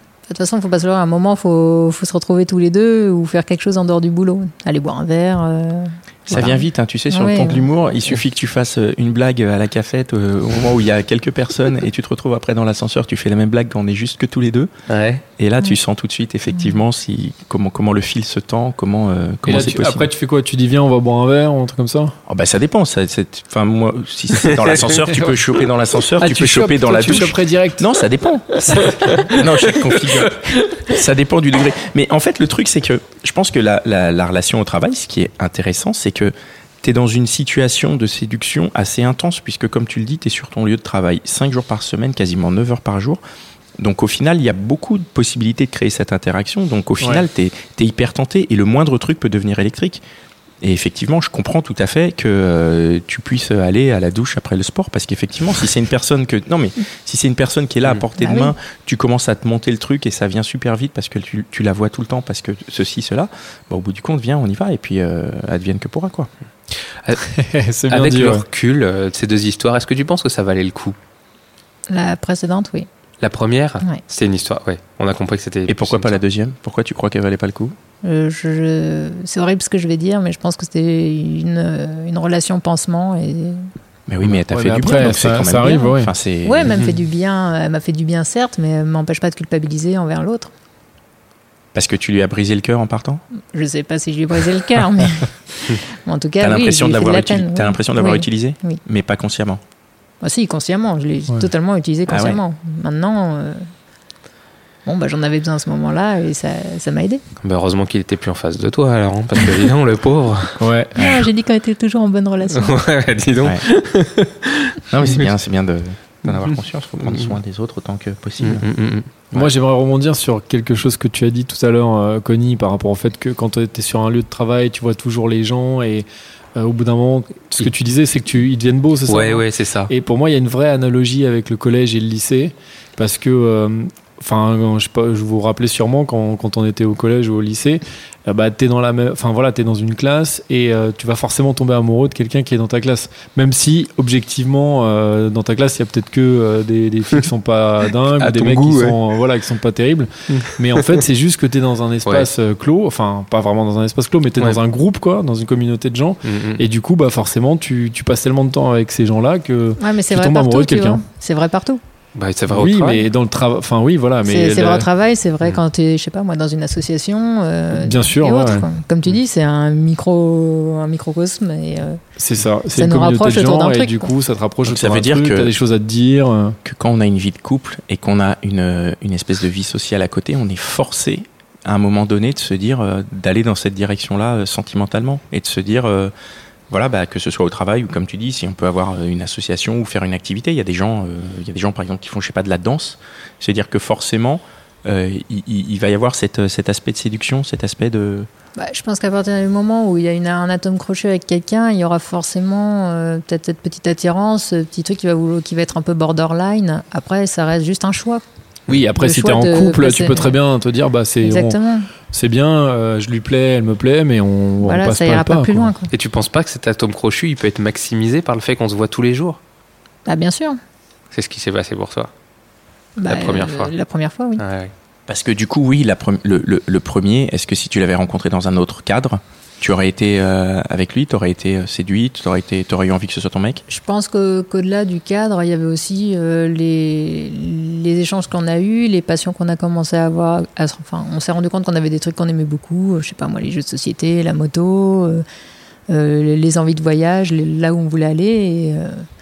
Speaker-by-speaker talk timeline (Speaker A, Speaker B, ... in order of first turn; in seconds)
Speaker A: 0.3-7.7, 58.2-58.5, 71.9-72.9, 78.0-83.7, 86.4-90.5, 93.5-98.8, 100.2-103.7, 104.8-107.2, 111.0-112.8, 159.8-161.8, 164.2-172.0, 172.7-174.1, 198.6-208.2, 208.9-210.3, 211.2-211.9, 214.6-215.9, 220.1-220.6, 223.0-224.4, 233.7-245.2, 245.9-249.0
Speaker B: 6.3-14.7, 15.4-20.1, 22.3-43.2, 43.8-50.0, 50.6-66.3, 75.7-77.7, 84.1-86.7, 91.7-93.2, 96.4-99.6, 102.1-102.4, 114.9-118.6, 174.6-175.5, 176.6-186.1, 186.7-198.3, 225.1-233.6
Speaker C: 14.9-15.2, 24.4-25.3, 28.6-30.8, 67.9-70.9, 73.2-76.2, 107.4-110.6, 112.5-115.2, 118.4-119.3, 129.1-129.9, 148.2-149.0, 150.3-151.0, 156.2-156.6, 162.1-163.0, 215.9-219.4, 221.1-222.1, 223.1-223.7, 224.4-224.7
Speaker D: 19.4-22.1, 26.2-27.9, 28.8-29.3, 67.2-68.4, 84.5-86.1, 110.6-111.1, 119.3-161.0, 162.5-164.9, 167.7-168.7, 172.2-176.6, 208.7-215.7